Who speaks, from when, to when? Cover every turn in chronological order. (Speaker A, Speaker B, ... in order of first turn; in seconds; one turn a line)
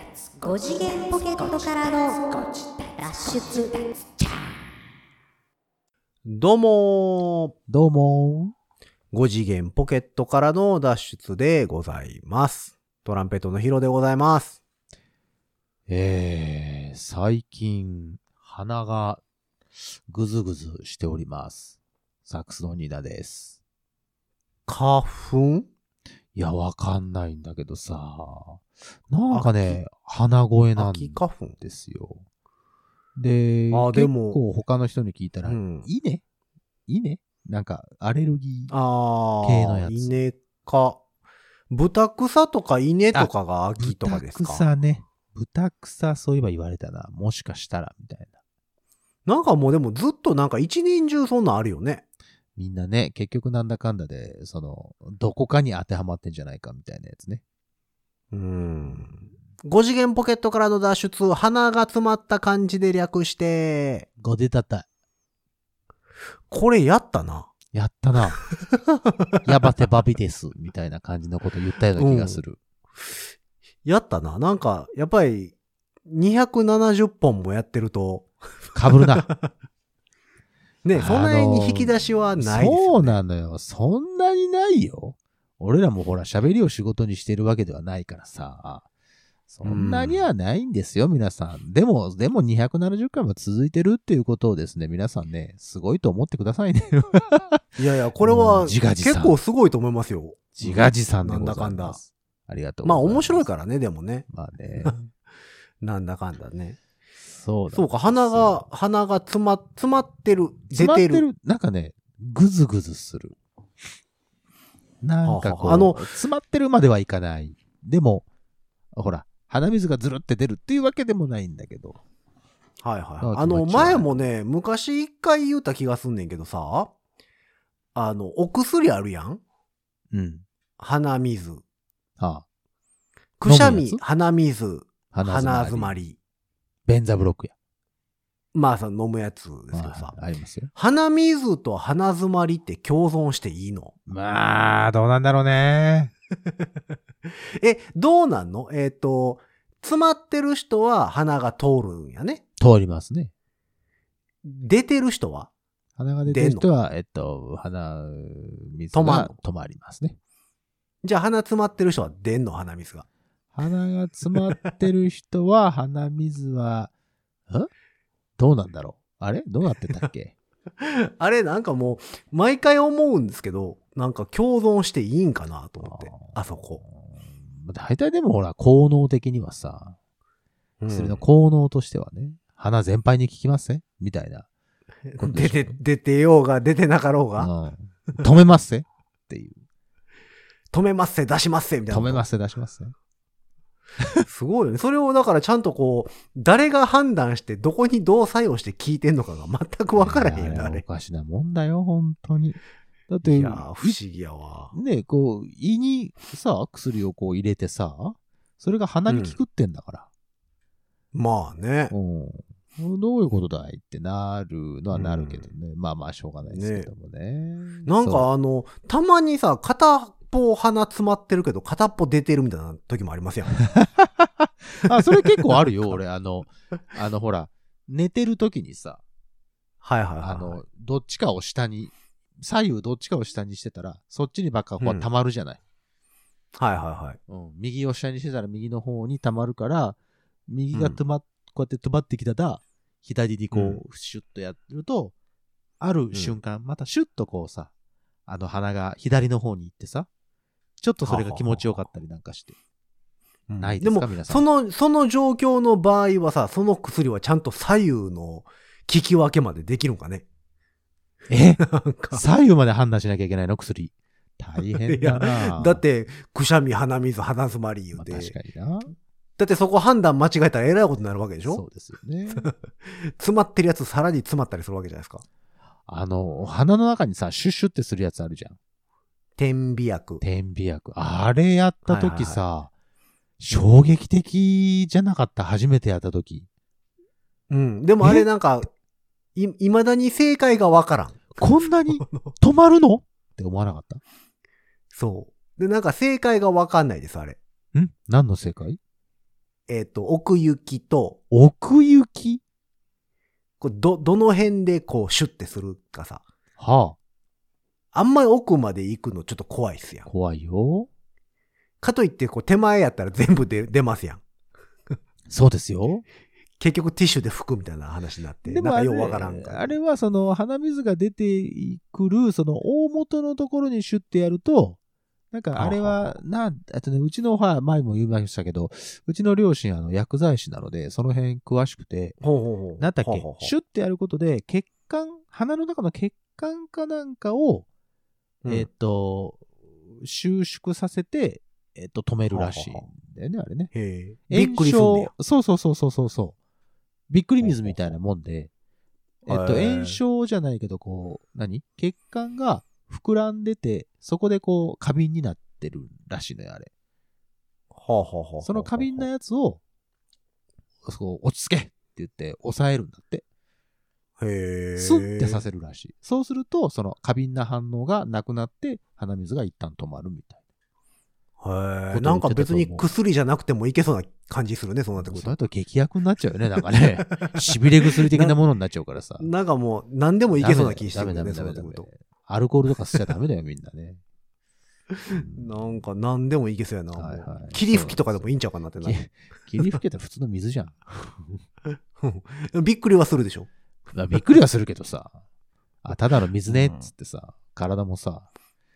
Speaker A: 0.4-4.4
Speaker B: 6.2-7.5
Speaker C: 7.7-8.5
Speaker B: 9.1-14.6
Speaker C: 15.9-19.2
Speaker C: 19.8-21.7
Speaker C: 22.2-23.6
Speaker B: 24.7-25.7
Speaker C: 26.3-32.2
Speaker B: 29.3-29.8
Speaker B: 30.8-31.6
Speaker C: 33.1-36.2
Speaker B: 33.7-34.4
Speaker B: 35.4-35.9
Speaker C: 36.9-38.7
Speaker B: 38.7-41.0
Speaker C: 39.4-40.2
Speaker B: 41.7-44.7
Speaker C: 43.1-48.3
Speaker B: 49.2-52.0
Speaker C: 52.5-57.4
Speaker B: 58.3-64.1
Speaker C: 64.2-64.9
Speaker B: 66.5-67.5
Speaker C: 67.7-68.4
Speaker B: 68.6-69.4
Speaker C: 69.4-72.6
Speaker B: 72.0-72.4
Speaker B: 73.8-75.5
Speaker B: 76.0-78.3
Speaker C: 78.7-79.3
Speaker B: 79.0-79.5
Speaker B: 80.8-83.2
Speaker C: 80.9-88.8
Speaker C: 89.5-97.6
Speaker B: 89.6-90.2
Speaker B: 97.8-102.0
Speaker C: 98.2-99.3
Speaker C: 100.5-103.5
Speaker B: 102.8-104.2
Speaker C: 104.3-105.0
Speaker B: 105.8-106.8
Speaker C: 107.2-108.6
Speaker B: 107.7-111.2
Speaker C: 110.7-113.4
Speaker C: 115.0-118.2
Speaker B: 115.2-116.0
Speaker C: 118.9-122.0
Speaker B: 122.8-126.9
Speaker C: 123.2-124.1
Speaker B: 127.9-129.4
Speaker C: 130.1-130.4
Speaker B: 130.8-131.6
Speaker C: 132.2-132.4
Speaker B: 133.4-136.2
Speaker C: 133.4-134.0
Speaker C: 135.1-135.9
Speaker C: 136.9-137.5
Speaker B: 138.5-140.2
Speaker C: 139.7-140.7
Speaker B: 140.7-143.9
Speaker C: 144.1-146.1
Speaker B: 147.6-152.4
Speaker C: 152.6-153.3
Speaker B: 154.4-155.5
Speaker C: 156.0-160.2
Speaker B: 156.3-156.7
Speaker B: 158.9-159.3
Speaker B: 161.0-163.1
Speaker C: 163.5-166.9
Speaker C: 168.4-170.3
Speaker B: 170.8-176.8
Speaker C: 175.8-180.0
Speaker B: 180.8-181.2
Speaker C: 180.9-184.5
Speaker B: 185.1-187.5
Speaker C: 185.2-185.8
Speaker C: 187.4-189.6
Speaker B: 190.7-192.2
Speaker C: 191.9-192.9
Speaker B: 194.2-200.8
Speaker C: 200.0-204.0
Speaker B: 203.2-204.7
Speaker C: 204.7-210.1
Speaker B: 209.1-209.4
Speaker B: 211.1-211.9
Speaker C: 211.9-218.3
Speaker B: 214.9-215.5
Speaker B: 216.5-216.9
Speaker B: 217.8-223.6
Speaker C: 223.7-229.0
Speaker B: 225.1-225.6
Speaker B: 229.8-230.6
Speaker C: 230.2-235.6
Speaker B: 234.8-235.1
Speaker B: 236.6-237.2
Speaker C: 237.3-245.1
Speaker B: 240.7-241.0
Speaker B: 243.5-243.8
Speaker C: 245.8-247.7
Speaker B: 246.1-246.4
Speaker C: 248.3-250.1
Speaker C: 250.8-252.6
Speaker B: 251.0-251.8
Speaker B: 253.5-260.2
Speaker C: 253.6-254.4
Speaker C: 261.3-265.8
Speaker B: 261.6-262.2
Speaker B: 264.6-268.4
Speaker C: 267.9-268.9
Speaker B: 269.4-271.6
Speaker C: 271.5-272.5
Speaker B: 272.4-275.2
Speaker C: 275.9-278.6
Speaker B: 279.4-280.2
Speaker C: 280.2-282.7
Speaker B: 281.9-282.4
Speaker C: 283.4-286.5
Speaker B: 287.5-288.7
Speaker C: 288.0-288.3
Speaker B: 289.4-291.4
Speaker C: 291.4-294.0
Speaker B: 294.9-297.4
Speaker C: 297.7-298.8
Speaker B: 299.7-301.2
Speaker C: 301.3-302.4
Speaker B: 303.6-306.2
Speaker C: 306.6-306.9
Speaker B: 307.9-310.1
Speaker C: 310.1-310.9
Speaker B: 311.8-314.2
Speaker C: 315.3-316.0
Speaker B: 316.6-319.8
Speaker C: 318.4-324.8
Speaker C: 325.3-332.2
Speaker B: 325.6-326.2
Speaker B: 332.2-333.5
Speaker C: 332.8-337.6
Speaker B: 338.4-338.7
Speaker C: 338.5-339.4
Speaker C: 339.9-343.7
Speaker B: 342.3-342.9
Speaker B: 343.7-345.1
Speaker C: 344.3-346.4
Speaker C: 347.1-348.5
Speaker B: 347.4-347.8
Speaker C: 349.2-356.7
Speaker B: 349.3-350.0
Speaker B: 357.7-359.1
Speaker C: 358.4-359.6
Speaker C: 360.8-363.2
Speaker B: 364.2-365.4
Speaker C: 364.8-370.4
Speaker B: 371.4-375.3
Speaker C: 371.9-372.9
Speaker C: 375.0-379.3
Speaker B: 376.8-378.4
Speaker B: 379.2-381.9
Speaker C: 380.3-384.0
Speaker B: 384.9-389.0
Speaker C: 385.1-385.8
Speaker C: 386.9-388.3
Speaker C: 388.8-391.4
Speaker B: 392.0-393.5
Speaker C: 393.9-395.2
Speaker C: 395.8-398.3
Speaker B: 396.4-396.9